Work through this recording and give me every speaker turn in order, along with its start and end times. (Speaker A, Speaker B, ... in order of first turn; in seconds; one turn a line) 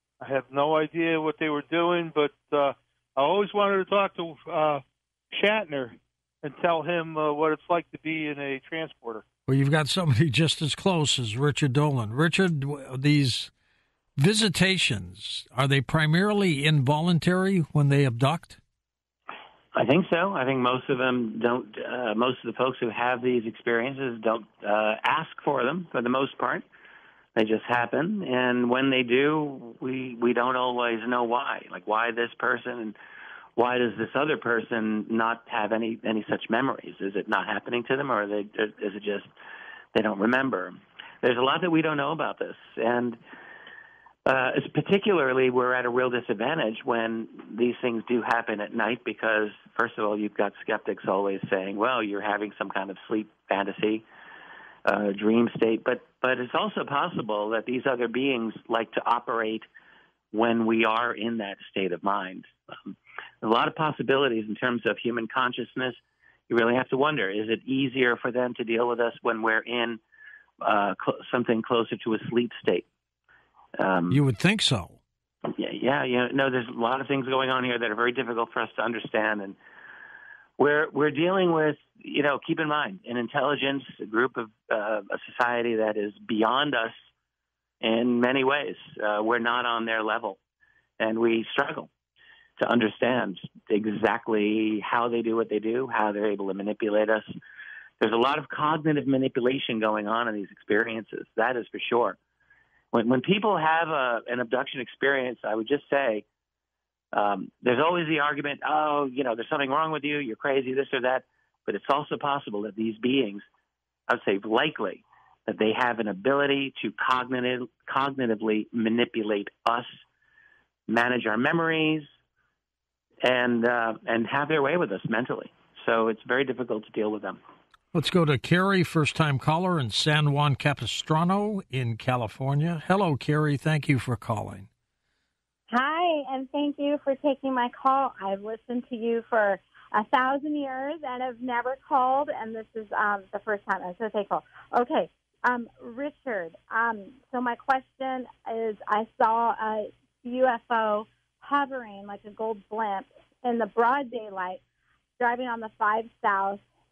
Speaker A: 0.2-9.2
Speaker B: 9.5-13.5
Speaker B: 14.2-18.6
Speaker C: 19.7-26.6
Speaker C: 27.4-33.0
Speaker C: 33.6-39.3
Speaker C: 39.9-43.2
Speaker C: 44.3-54.0
Speaker C: 54.9-59.7
Speaker C: 60.3-70.0
Speaker C: 70.6-72.9
Speaker C: 73.8-74.2
Speaker B: 74.1-75.0
Speaker C: 75.5-79.6
Speaker C: 80.6-87.0
Speaker C: 87.8-90.4
Speaker C: 91.0-91.9
Speaker C: 92.6-97.3
Speaker C: 98.0-102.2
Speaker C: 102.9-106.2
Speaker C: 107.1-113.5
Speaker C: 114.1-120.0
Speaker C: 120.9-122.1
Speaker C: 123.2-127.4
Speaker B: 127.9-134.7
Speaker D: 135.7-154.6
Speaker D: 155.2-156.6